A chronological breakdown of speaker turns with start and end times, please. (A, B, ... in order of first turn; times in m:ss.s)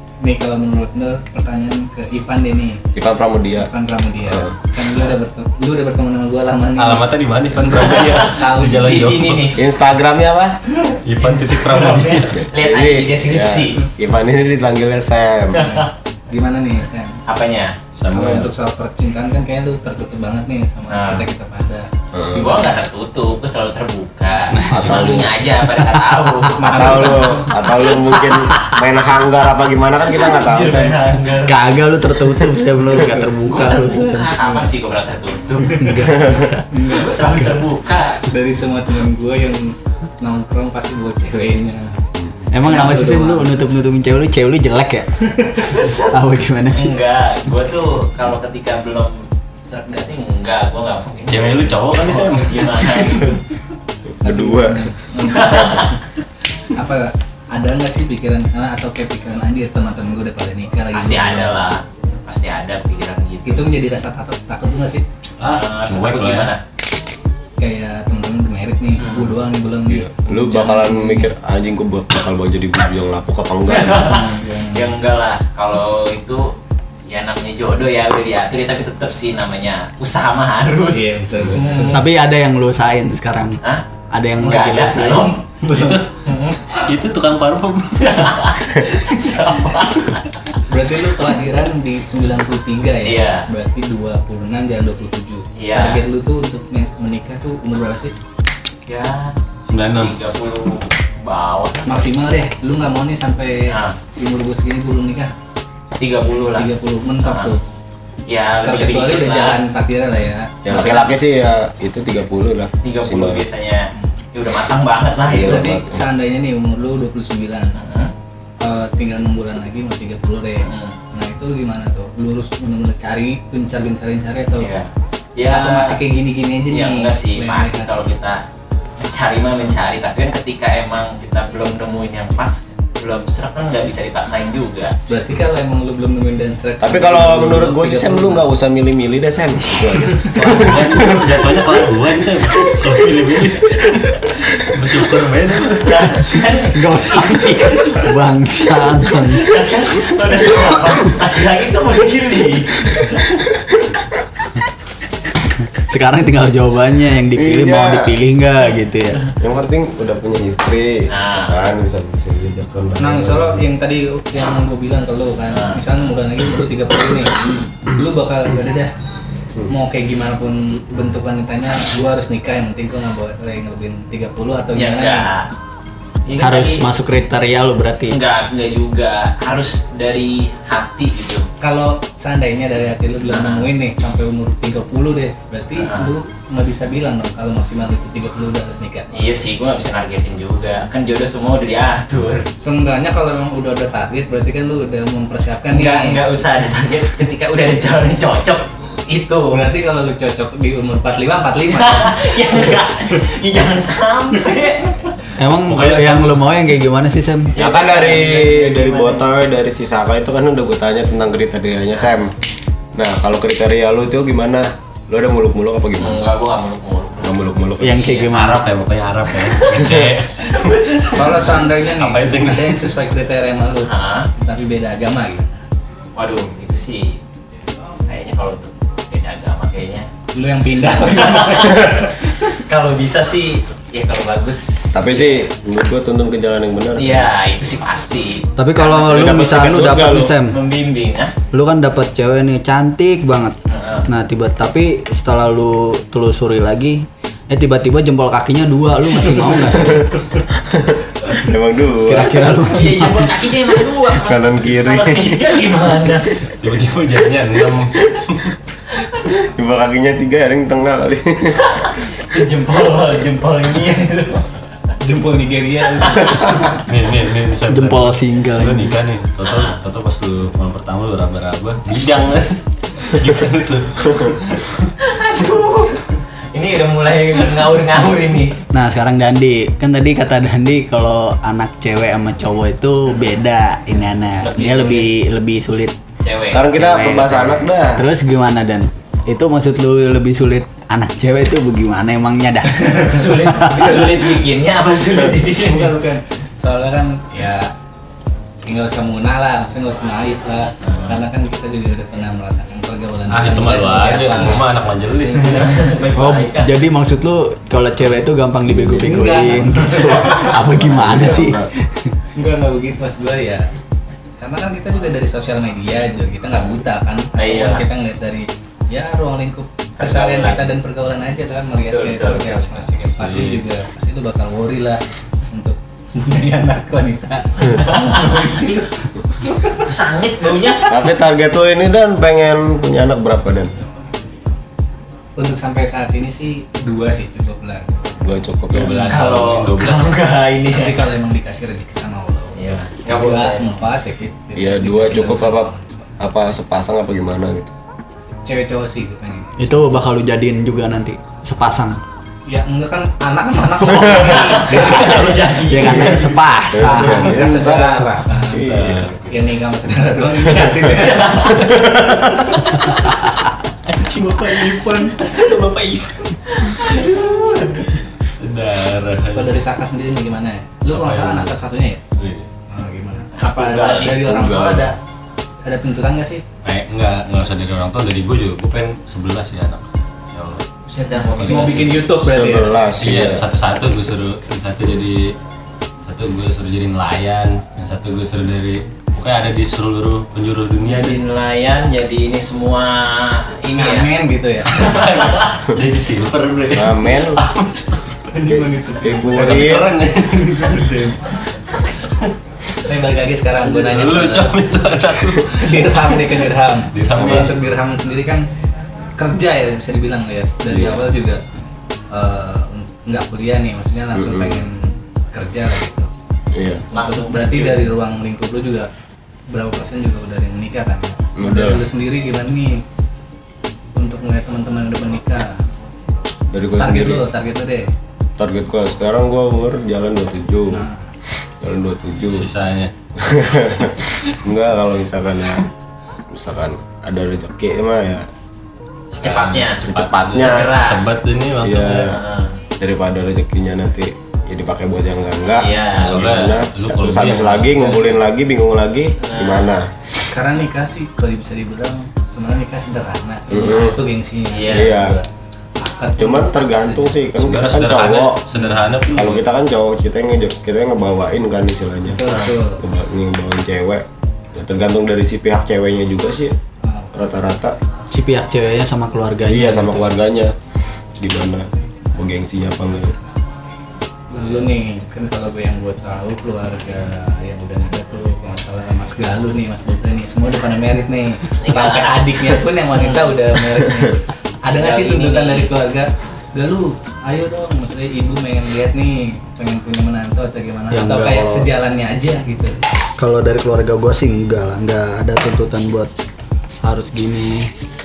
0:00.2-0:02.8 A
0:03.0-0:03.7 B
0:03.6-0:09.0 A
0:04.2-0:04.6 B
0:06.8-0:09.6 C
0:08.8-0:09.6 D
0:09.6-0:10.6 B
0:10.8-0:11.3 A
0:11.0-0:12.5 C
0:11.2-0:13.8 D
0:12.5-0:15.7 B
0:15.5-0:15.9 D
0:15.6-0:17.2 A
0:17.3-0:17.8 D
0:18.0-0:18.5 C
0:18.1-0:21.9 A
0:20.9-0:21.2 D
0:22.1-0:22.7 B
0:22.3-0:28.6 D
0:24.7-0:25.1 C
0:24.7-0:25.4 B
0:26.5-0:27.5 A
0:26.6-0:31.0 B
0:30.2-0:31.7 D
0:31.4-0:34.3 E
0:33.4-0:38.3 D
0:35.7-0:36.1 A
0:35.8-0:36.6 E
0:36.0-0:36.5 B
0:36.7-0:37.6 A
0:38.2-0:42.0 A
0:42.5-0:45.1 E
0:42.6-0:43.5 A
0:45.4-0:46.0 A
0:45.7-0:46.1 D
0:46.1-0:47.0 E
0:46.7-0:53.4 D
0:51.3-0:53.2 C
0:54.2-0:54.9 B
0:54.2-0:56.0 A
0:55.2-0:56.0 D
0:56.6-1:01.7 A
1:00.9-1:03.7 D
1:03.4-1:05.0 A
1:05.4-1:06.5 C
1:05.4-1:06.6 D
1:07.6-1:11.3 A
1:09.0-1:09.3 D
1:09.9-1:14.2 B
1:13.7-1:16.5 D
1:14.0-1:15.0 A
1:17.1-1:22.0 D
1:20.9-1:22.0 A
1:21.9-1:23.6 E
1:24.1-1:25.3 E
1:24.4-1:26.9 D
1:25.7-1:26.1 C
1:26.7-1:29.3 C
1:28.0-1:30.3 D
1:30.7-1:38.1 A
1:33.0-1:33.5 D
1:35.6-1:36.0 D
1:38.9-1:39.4 D
1:39.7-1:40.2 C
1:39.9-1:42.1 D
1:41.9-1:45.3 A
1:43.7-1:44.0 D
1:46.0-1:46.7 D
1:46.6-1:47.6 A
1:47.2-1:47.6 D
1:48.3-1:49.6 D
1:48.6-1:51.1 A
1:50.6-1:53.4 B
1:52.8-1:55.7 D
1:55.2-1:56.0 B
1:55.4-1:57.8 A
1:57.8-1:58.1 D
1:58.6-2:04.7 A
2:00.6-2:01.0 D
2:04.6-2:06.0 D
2:05.5-2:08.1 A
2:06.7-2:08.4 D
2:09.0-2:15.0 D
2:15.1-2:18.5 A
2:16.8-2:21.9 B
2:19.6-2:20.8 D
2:20.5-2:26.1 C
2:25.8-2:28.1 D
2:26.8-2:29.6 E
2:29.1-2:33.0 D
2:32.9-2:33.3 B
2:35.8-2:39.2 E
2:37.4-2:38.2 B
2:39.4-2:43.6 B
2:41.1-2:41.6 D
2:43.0-2:48.9 A
2:45.5-2:45.9 D
2:47.4-2:47.7 D
2:49.7-2:55.3 A
2:54.7-2:55.5 D
2:56.3-2:56.9 D
2:56.4-2:58.2 E
2:58.1-3:01.5 D
3:01.6-3:09.3 A
3:03.3-3:03.7 D
3:05.8-3:06.1 D
3:09.1-3:12.5 D
3:12.6-3:16.2 A
3:15.7-3:19.6 D
3:19.5-3:22.6 A
3:21.7-3:24.9 D
3:25.4-3:27.5 E
3:25.7-3:26.4 C
3:27.6-3:29.3 D
3:27.6-3:32.3 B
3:33.0-3:36.3 B
3:36.0-3:38.6 D
3:37.2-3:38.2 B
3:37.8-3:38.7 E
3:38.3-3:43.0 C
3:39.3-3:39.9 D
3:39.9-3:40.1 B
3:40.5-3:41.4 D
3:41.1-3:45.6 A
3:43.8-3:44.3 D
3:46.2-3:47.2 D
3:48.1-3:50.1 D
3:50.3-3:52.4 A
3:50.7-3:55.4 D
3:54.9-3:57.3 B
3:57.0-4:01.3 D
3:58.6-4:00.6 E
3:58.8-4:00.3 B
4:01.5-4:10.1 E
4:03.7-4:04.1 D
4:10.6-4:12.6 B
4:12.0-4:13.4 E
4:12.7-4:16.4 D
4:14.1-4:16.1 B
4:16.6-4:18.6 C
4:19.3-4:21.6 B
4:21.7-4:24.6 D
4:25.0-4:26.6 A
4:26.0-4:26.4 D
4:26.8-4:34.9 C
4:27.7-4:29.0 E
4:29.4-4:29.8 D
4:35.0-4:38.6 D
4:38.7-4:46.0 E
4:43.1-4:43.4 D
4:44.5-4:45.1 D
4:44.6-4:44.9 C
4:46.2-4:47.7 D
4:46.5-4:48.0 B
4:47.9-4:54.2 E
4:52.8-4:53.6 A
4:53.0-4:55.9 D
4:55.6-4:57.7 A
4:58.6-5:04.8 A
5:00.8-5:01.2 D
5:03.3-5:05.9 C
5:05.4-5:06.8 D
5:06.2-5:12.1 E
5:08.7-5:09.2 B
5:09.0-5:10.6 A
5:10.6-5:11.7 B
5:12.4-5:13.7 A
5:14.4-5:29.9 A
5:17.4-5:17.9 D
5:20.0-5:20.7 D
5:21.9-5:22.9 D
5:23.2-5:23.7 C
5:27.9-5:28.5 D
5:29.8-5:30.9 D
5:30.9-5:33.7 B
5:35.4-5:38.2 A
5:38.2-5:39.7 B
5:38.7-5:40.2 C
5:38.7-5:39.1 A
5:38.8-5:41.1 D
5:40.7-5:46.0 A
5:42.6-5:43.7 D
5:44.6-5:47.7 B
5:48.4-5:49.7 A
5:49.6-5:52.0 E
5:52.5-5:55.5 A
5:54.0-5:56.3 D
5:54.7-5:57.4 E
5:55.8-5:59.2 B
5:56.9-5:58.7 A
5:58.5-5:59.4 C
5:59.3-6:01.8 A
6:01.6-6:02.6 B
6:01.8-6:09.6 C
6:04.4-6:05.1 A
6:06.8-6:07.7 D
6:09.3-6:12.0 A
6:10.9-6:11.6 C
6:12.2-6:12.5 C
6:12.7-6:15.0 A
6:13.4-6:14.3 D
6:14.1-6:14.9 B
6:15.6-6:16.4 A
6:16.6-6:20.7 C
6:20.9-6:22.0 D
6:21.3-6:22.8 A
6:22.1-6:23.5 B
6:23.0-6:25.3 C
6:26.1-6:31.2 C
6:30.8-6:34.1 D
6:33.7-6:35.0 A
6:34.8-6:35.5 D
6:34.8-6:38.4 C
6:36.7-6:37.4 B
6:38.3-6:41.4 A
6:38.5-6:39.9 B
6:39.2-6:42.3 C
6:42.8-6:44.6 A
6:43.6-6:46.3 C
6:45.5-6:48.5 A
6:46.9-6:47.6 C
6:47.1-6:47.5 B
6:49.2-6:51.4 A
6:52.1-6:56.1 A
6:54.2-6:54.6 B
6:56.5-6:56.9 B
6:56.9-6:57.8 D
6:56.9-6:58.9 A
6:59.5-7:02.8 A
7:01.4-7:01.8 B
7:04.0-7:05.6 A
7:06.5-7:07.2 B
7:06.8-7:07.9 A
7:08.4-7:10.9 B
7:10.7-7:11.1 A
7:11.5-7:12.5 B
7:12.3-7:12.9 C
7:13.2-7:15.7 B
7:16.3-7:18.3 B
7:19.1-7:22.1 C
7:19.2-7:21.1 D
7:19.8-7:20.8 B
7:21.6-7:22.2 B
7:22.1-7:22.6 D
7:22.8-7:30.0 B
7:25.6-7:26.2 D
7:26.0-7:28.0 C
7:29.2-7:29.7 D
7:30.3-7:35.3 A
7:33.5-7:34.0 B
7:34.5-7:34.9 D
7:34.7-7:35.2 B
7:35.8-7:37.2 A
7:36.2-7:38.4 B
7:37.4-7:39.5 C
7:38.6-7:38.8 A
7:39.1-7:46.6 B
7:42.1-7:42.8 A
7:46.8-7:47.1 A
7:47.1-7:47.8 B
7:48.1-7:50.2 E
7:49.5-7:50.6 B
7:51.2-7:53.1 B
7:54.3-8:12.8 A
8:01.6-8:02.4 D
8:03.0-8:03.4 D
8:04.7-8:05.7 D
8:10.9-8:11.7 E
8:13.2-8:16.1 E
8:16.8-8:17.7 E